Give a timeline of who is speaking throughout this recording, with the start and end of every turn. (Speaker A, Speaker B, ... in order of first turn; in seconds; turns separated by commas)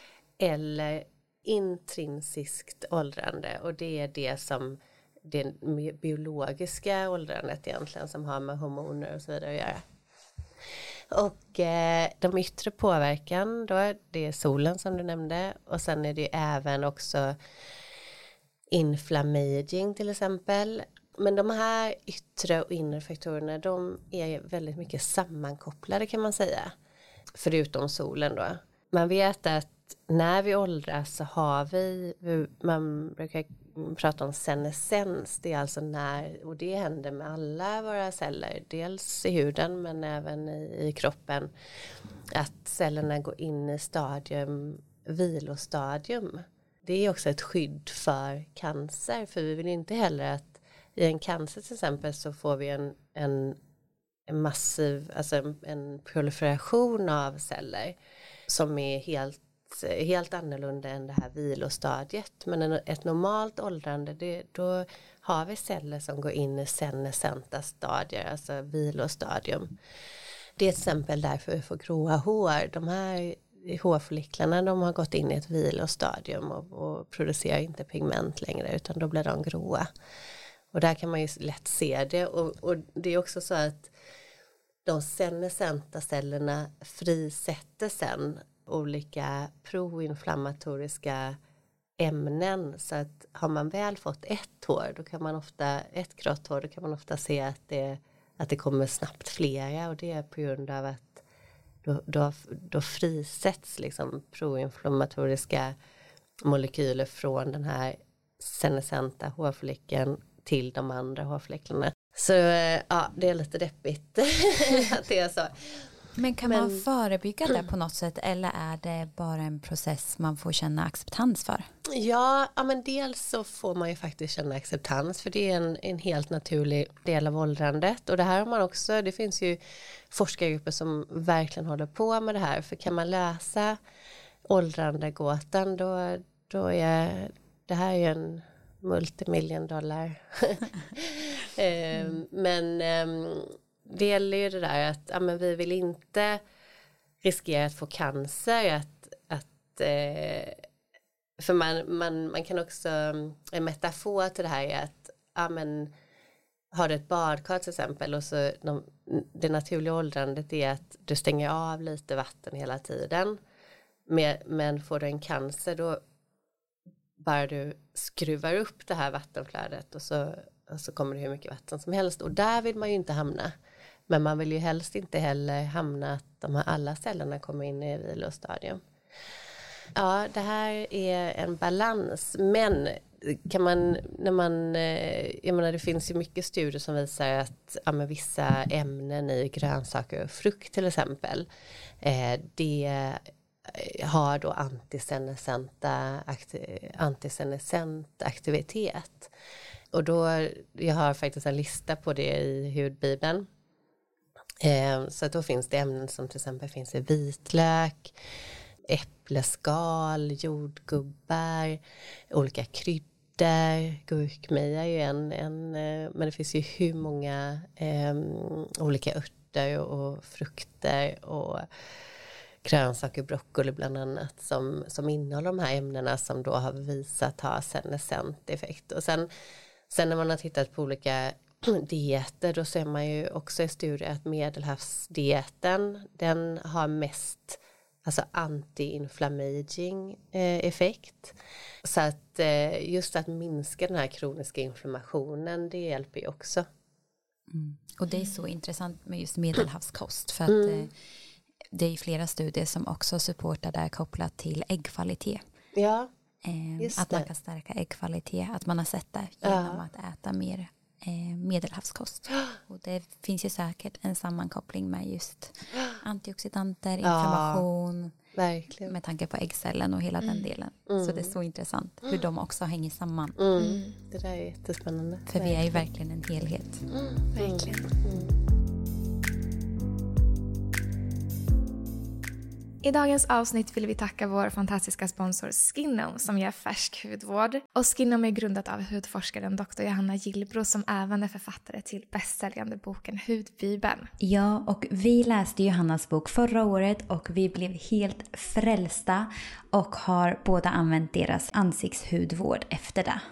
Speaker A: 0.4-9.8, Speaker A: 11.1-17.4, Speaker A: 18.7-26.7, Speaker A: 27.3-41.5, Speaker A: 42.3-53.6, Speaker A: 54.3-58.0, Speaker A: 58.5-69.7, Speaker A: 70.6-79.9, Speaker A: 80.7-83.9, Speaker A: 84.8-91.4, Speaker A: 92.0-101.2, Speaker A: 101.8-105.7, Speaker A: 106.4-115.8, Speaker B: 116.2-121.7, Speaker A: 116.4-116.8, Speaker A: 121.9-129.6, Speaker A: 130.1-133.8, Speaker A: 134.4-146.4, Speaker A: 147.2-150.6, Speaker A: 151.4-155.9, Speaker A: 156.7-163.4, Speaker A: 164.1-166.0, Speaker A: 167.2-173.5, Speaker A: 174.1-178.8, Speaker A: 179.9-191.5, Speaker A: 192.0-199.3, Speaker A: 199.9-203.5, Speaker A: 204.6-208.1, Speaker A: 208.9-211.8, Speaker A: 212.3-221.7, Speaker A: 222.6-229.3, Speaker A: 229.9-246.7, Speaker B: 247.5-250.9, Speaker A: 250.5-250.9, Speaker B: 251.7-255.4, Speaker A: 255.7-256.1, Speaker B: 256.4-268.1, Speaker A: 256.8-257.3, Speaker A: 259.4-259.8, Speaker A: 267.0-267.6, Speaker A: 268.3-268.9, Speaker B: 268.9-273.4, Speaker A: 270.9-271.3, Speaker A: 273.4-275.8, Speaker C: 273.6-273.9, Speaker B: 275.3-276.9, Speaker A: 276.9-278.4, Speaker C: 277.4-277.9, Speaker C: 282.8-294.1, Speaker B: 294.2-303.2